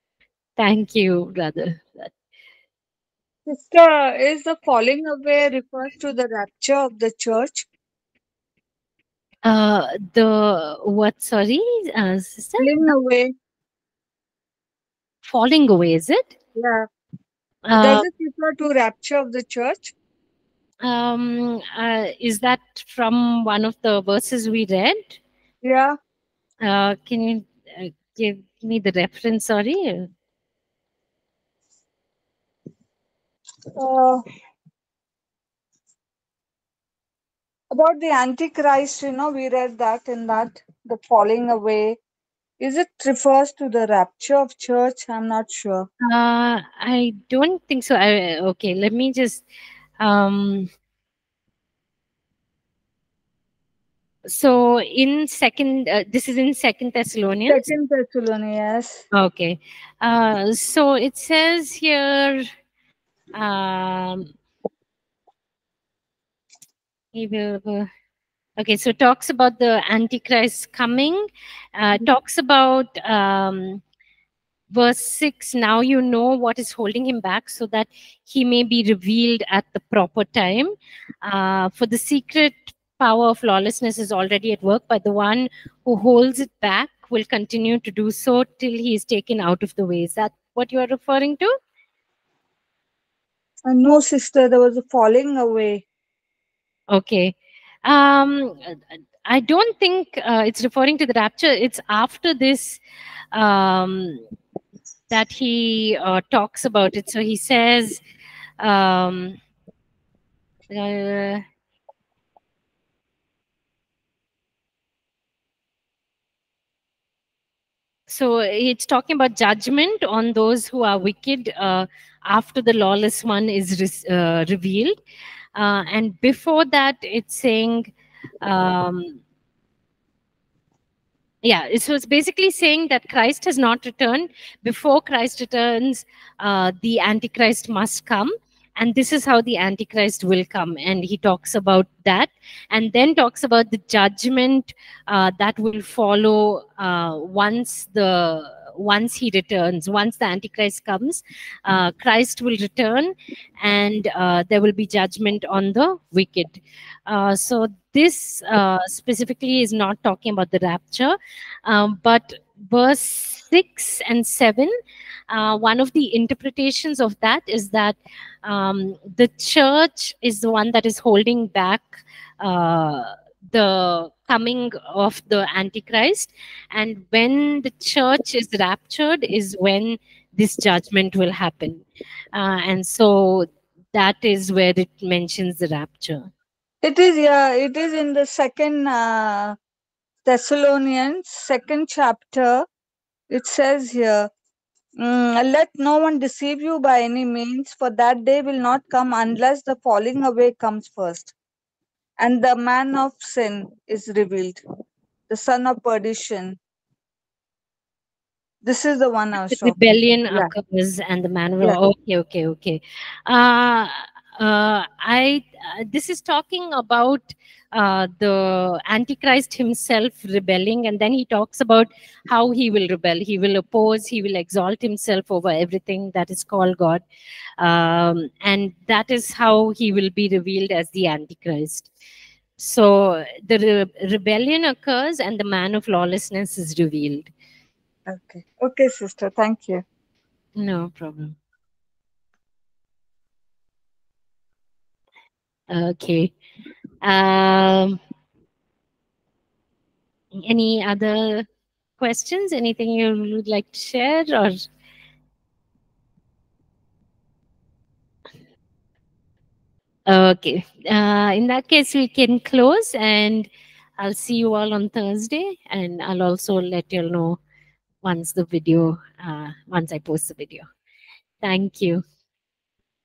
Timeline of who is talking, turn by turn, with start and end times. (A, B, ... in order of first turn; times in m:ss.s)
0:00.6-0:02.1 A
0:03.5-0:07.7 B
0:09.4-0:12.8 A
0:12.6-0:13.3 B
0:15.2-0:16.4 A
0:16.6-0:16.9 B
0:17.7-0:18.0 A
0:17.7-0:19.9 B
0:20.8-0:25.2 A
0:25.6-0:26.0 B
0:26.6-0:30.1 A
0:33.7-0:34.2 B
0:37.7-0:42.0 B
0:42.6-0:45.8 B
0:46.0-0:49.4 A
0:50.0-0:50.7 A
0:54.2-0:57.7 A
0:57.5-0:59.0 B
0:59.1-1:02.4 A
1:03.3-1:04.3 A
1:07.1-1:07.9 A
1:08.6-1:11.2 A
1:11.8-1:13.8 A
1:14.7-1:31.6 A
1:33.6-1:35.8 B
1:36.9-1:42.8 A
1:43.3-1:44.2 A
1:45.1-1:48.0 A
1:48.6-1:49.4 A
1:50.7-1:51.4 A
1:58.1-2:05.0 A
2:05.6-2:09.2 A
2:11.4-2:44.7 A
2:45.3-3:06.3 A
3:06.8-3:09.6 B
3:10.2-3:12.6 B
3:13.3-3:14.3 B
3:15.0-3:21.3 B
3:22.2-3:24.6 B
3:25.3-3:26.6 B
3:28.6-3:30.5 B
3:29.4-3:47.0 A
3:47.6-3:51.9 A
3:52.6-3:57.3 A
3:58.1-3:59.8 B
4:00.6-4:01.4 A
4:05.7-4:06.3 A
4:07.0-4:08.0 A
4:10.3-4:11.5 A
4:12.0-4:14.6 A
4:20.1-4:23.5 A
4:24.0-4:27.4 A
4:28.0-4:30.7 A
4:31.4-4:32.0 A